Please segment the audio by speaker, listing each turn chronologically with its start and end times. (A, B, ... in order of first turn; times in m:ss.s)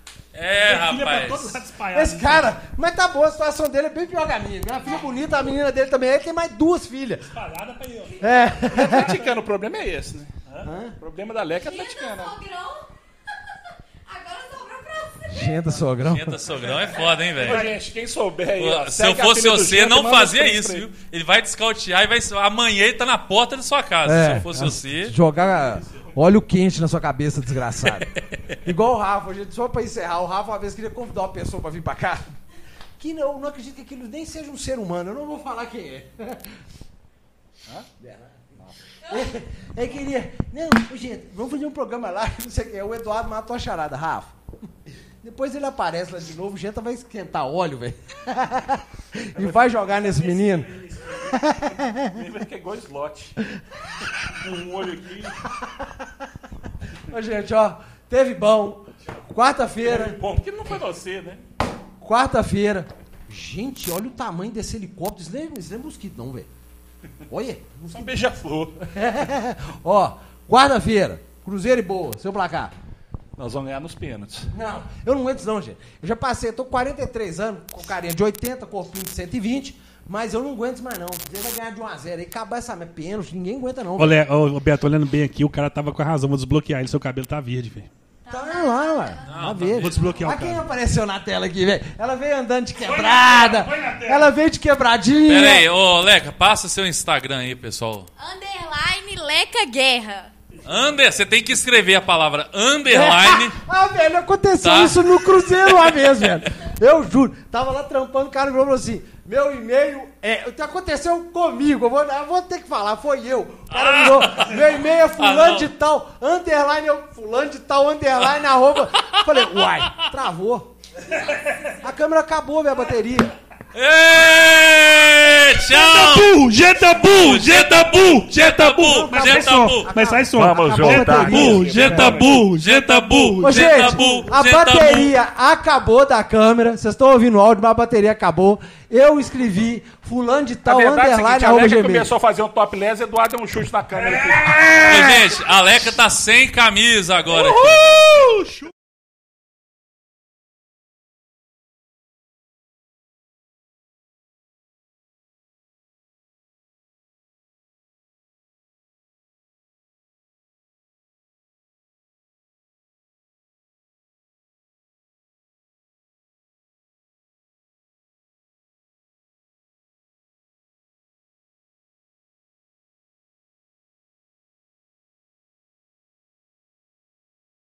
0:00.3-0:01.6 A
0:00.6-0:02.6 B
0:01.9-0:07.3 C
0:07.2-0:08.3 B
0:08.2-0:09.2 C
0:08.7-0:10.3 D
0:10.6-0:11.0 C
0:11.0-0:12.4 D
0:11.6-0:12.9 E
0:14.1-0:15.6 E
0:15.3-0:16.4 C
0:15.8-0:17.7 A
0:17.4-0:20.8 D
0:17.5-0:17.8 B
0:18.6-0:25.2 A
0:24.0-0:28.1 C
0:25.4-0:26.1 B
0:28.6-0:32.3 C
0:33.0-0:36.6 C
0:38.0-0:38.4 C
0:39.0-0:44.4 C
0:45.2-0:50.7 C
0:49.4-0:51.7 B
0:51.3-0:52.2 C
0:52.0-0:53.4 D
0:54.3-0:55.5 D
0:57.1-1:00.2 C
0:59.8-1:01.4 D
1:02.0-1:06.5 C
1:07.3-1:08.2 C
1:07.9-1:08.8 D
1:08.8-1:12.7 C
1:13.4-1:14.5 D
1:14.5-1:24.2 C
1:24.0-1:27.9 B
1:28.2-1:29.5 E
1:28.3-1:35.7 C
1:29.3-1:30.2 A
1:29.7-1:30.6 B
1:32.8-1:34.3 B
1:35.3-1:38.1 A
1:38.2-1:40.3 E
1:40.6-1:43.6 A
1:42.9-2:00.7 C
1:44.6-1:46.3 A
1:53.7-1:55.7 A
1:59.0-2:00.1 A
2:01.2-2:01.5 B
2:01.8-2:03.3 C
2:03.7-2:09.9 A
2:05.7-2:14.2 B
2:08.8-2:12.0 C
2:10.4-2:12.4 D
2:11.0-2:15.1 A
2:13.4-2:22.1 C
2:20.6-2:24.7 D
2:24.0-2:25.2 B
2:24.8-2:28.1 A
2:27.3-2:28.7 B